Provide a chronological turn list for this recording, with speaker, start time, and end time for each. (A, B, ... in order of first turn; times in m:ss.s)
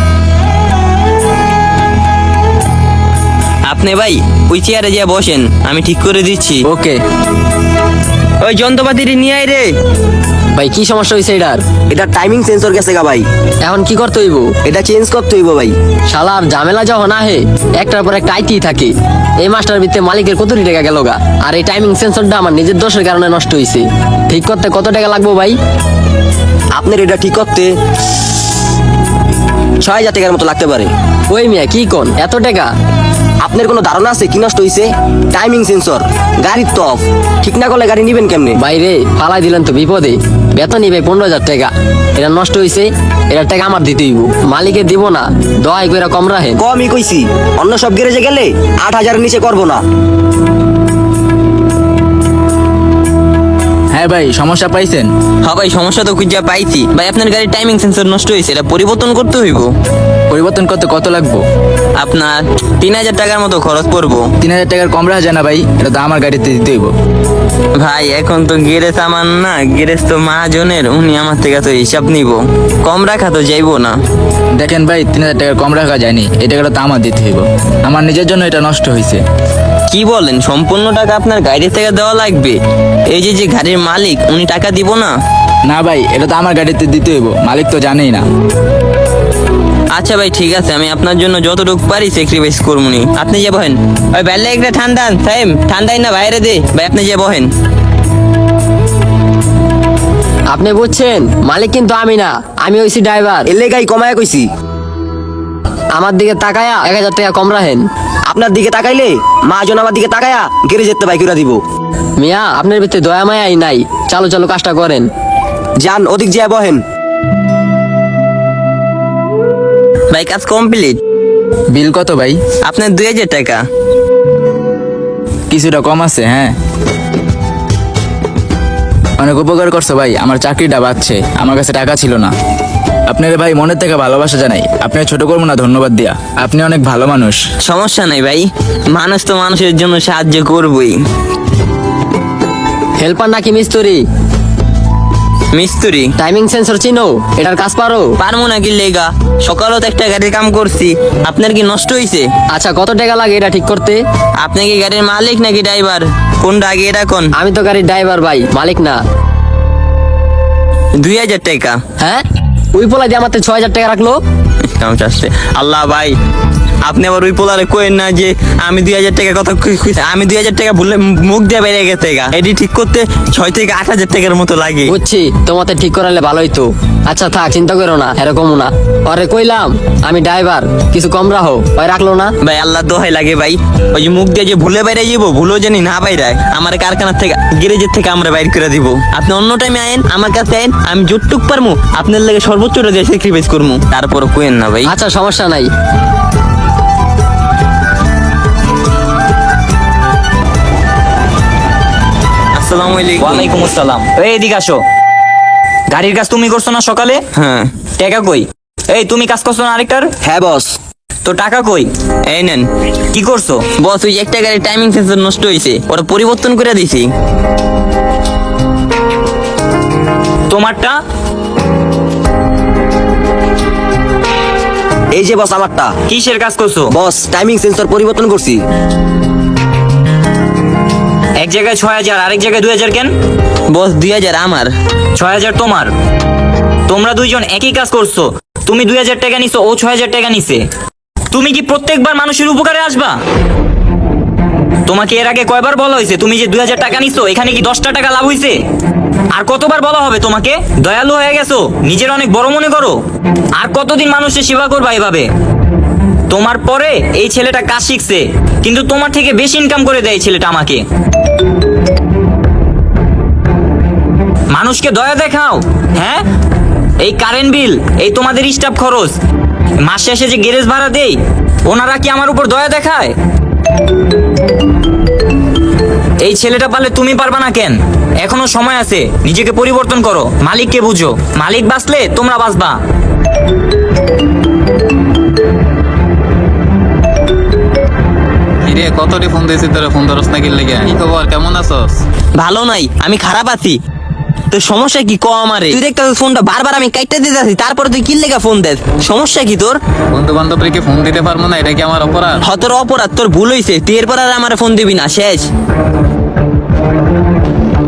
0:03.7-0:06.6 A
0:06.7-0:07.0 B
0:08.4-0:09.7 A
0:10.6-0:11.6 C
0:11.9-0:13.2 D
0:13.6-0:14.5 C
0:14.6-0:15.7 D
0:16.1-0:25.5 C
0:26.8-0:27.7 D
0:29.8-0:30.9 D
0:31.3-0:32.7 C
0:33.4-0:38.6 D
0:38.6-0:46.6 C
0:46.6-0:49.8 D
0:53.9-0:55.1 B
0:55.4-0:59.7 A
1:00.3-1:01.4 B
1:02.0-1:04.3 A
1:04.4-1:06.9 B
1:07.8-1:14.0 A
1:14.6-1:19.2 B
1:19.9-1:22.6 A
1:23.1-1:25.1 A
1:25.7-1:28.2 B
1:29.9-1:37.5 A
1:40.5-1:43.5 C
1:43.5-1:44.5 D
1:46.0-1:47.8 C
1:48.3-1:51.6 D
1:52.2-1:55.0 C
1:55.8-1:56.8 D
2:00.1-2:01.0 A
2:01.7-2:02.4 B
2:02.6-2:03.6 A
2:05.5-2:06.5 B
2:09.2-2:12.3 B
2:13.1-2:17.4 B
2:17.6-2:21.0 A
2:23.0-2:24.0 C
2:25.5-2:26.1 A
2:26.2-2:28.1 C
2:28.2-2:32.3 A
2:32.5-2:34.0 C
2:34.4-2:37.3 A
2:37.3-2:39.0 C
2:41.0-2:41.8 A
2:42.8-2:44.2 C
2:44.8-2:46.1 A
2:46.9-2:54.9 A
2:54.8-3:02.3 C
3:02.4-3:14.9 A
3:14.8-3:15.7 C
3:22.5-3:23.5 A
3:23.2-3:24.8 E
3:25.9-3:27.2 E
3:27.4-3:27.7 A
3:28.0-3:30.1 E
3:30.2-3:30.7 D
3:31.2-3:31.9 E
3:32.2-3:32.7 A
3:33.1-3:33.7 E
3:33.7-3:37.1 A
3:40.5-3:41.0 E
3:45.1-3:45.9 D
3:46.1-3:46.9 E
3:46.9-3:48.6 D
3:51.4-3:53.1 E
3:53.7-3:54.7 A
3:55.2-3:55.9 E
3:56.9-4:00.6 E
4:01.3-4:03.2 E
4:04.9-4:08.6 E
4:09.3-4:13.0 E
4:13.6-4:15.3 E
4:16.3-4:20.8 E
4:24.5-4:26.2 E
4:27.0-4:29.2 E
4:29.8-4:33.1 E
4:36.2-4:42.8 E
4:48.6-4:52.0 F
4:52.4-4:53.8 A
4:54.5-4:59.8 A
5:00.1-5:02.4 F
5:02.4-5:05.5 A